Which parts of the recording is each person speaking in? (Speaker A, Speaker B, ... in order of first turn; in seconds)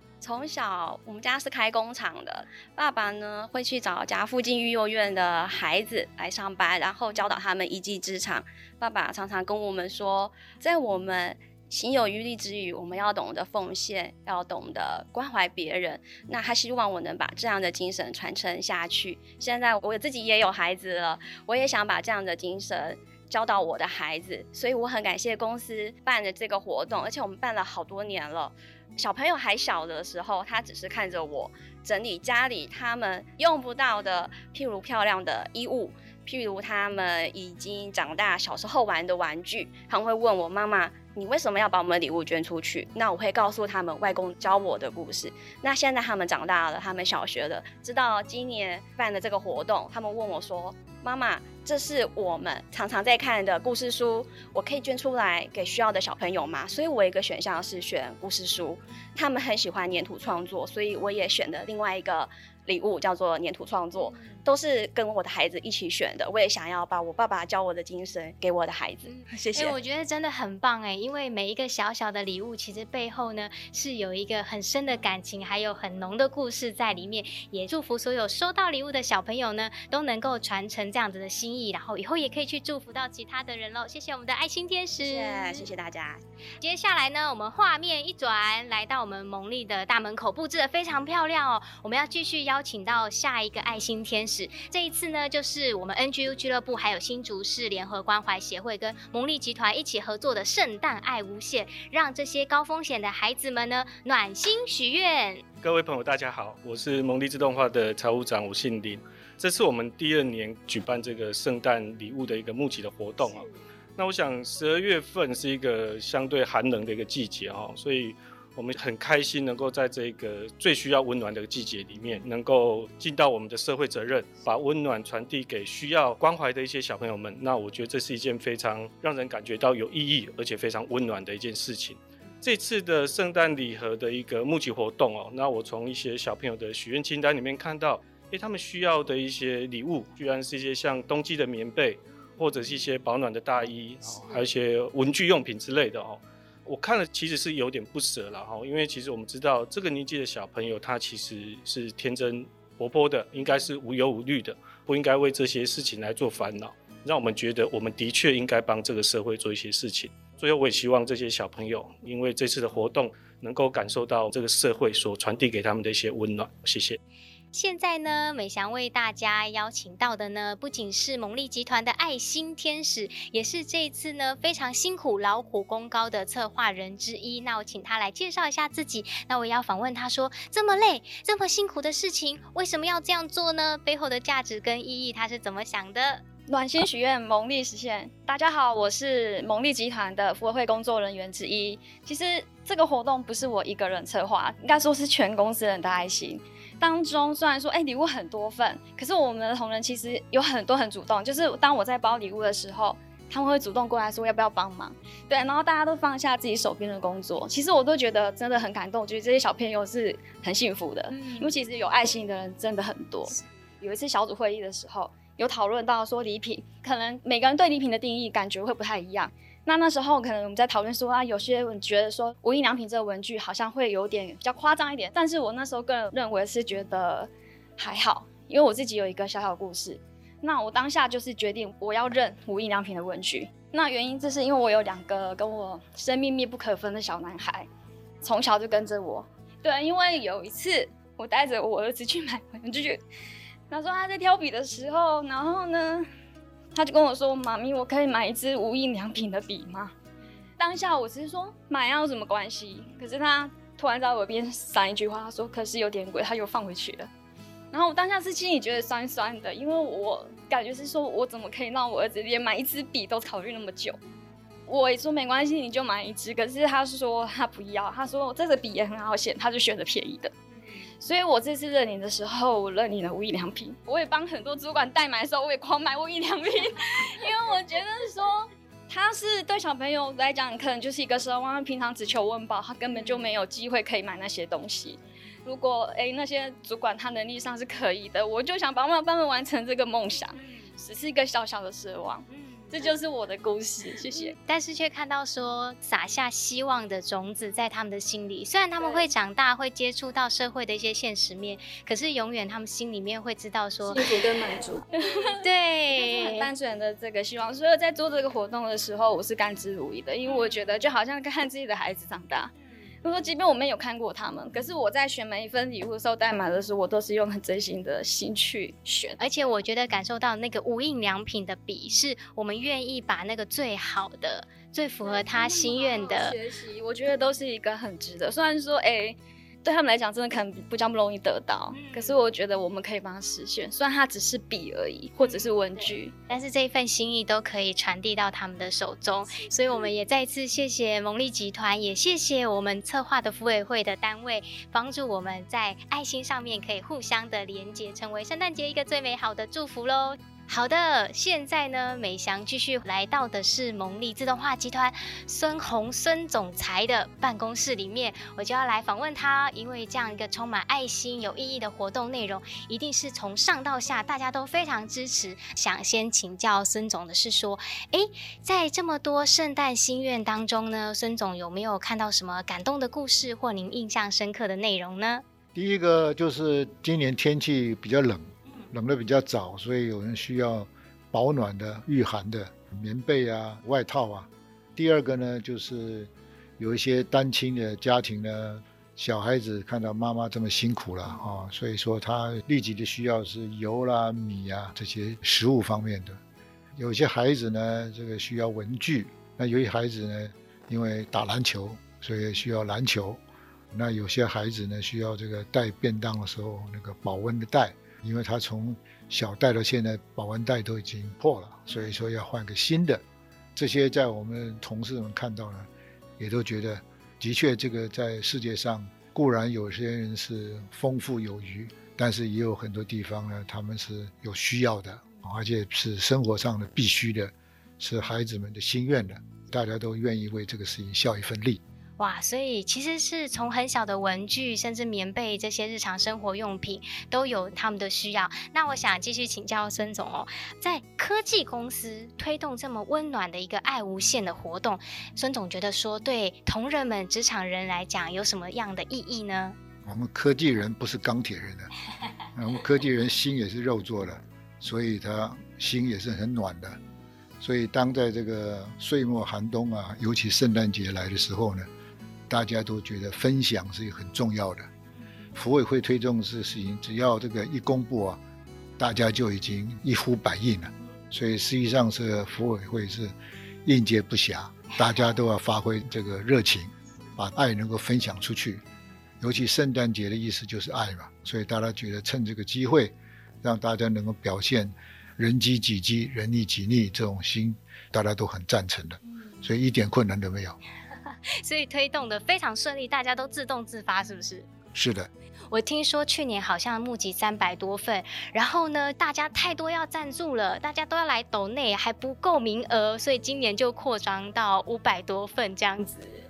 Speaker A: 0.2-69.8, 85.0-86.2
Speaker B: 69.1-85.7, 86.6-105.4, 167.5-186.2, 211.1-211.5, 294.1-304.1, 305.4-306.5, 319.2-326.4, 331.7-332.2, 335.2-375.2, 432.0-449.6, 491.4-494.5, 495.5-506.1
Speaker C: 105.6-113.5, 114.0-167.0
Speaker D: 186.5-237.7, 238.2-243.0, 243.7-246.1, 246.7-249.9, 250.6-257.1, 257.7-264.0, 264.7-270.3, 271.0-294.4, 298.8-299.1, 303.9-305.4, 305.9-312.5, 313.0-319.2, 325.0-336.1
Speaker E: 375.6-396.2, 396.8-403.2, 403.7-413.0, 413.6-431.6, 449.9-451.7, 452.4-456.8, 457.4-461.7, 462.3-464.7, 465.4-468.2, 468.8-473.1, 473.6-478.6, 479.2-490.6, 494.7-495.1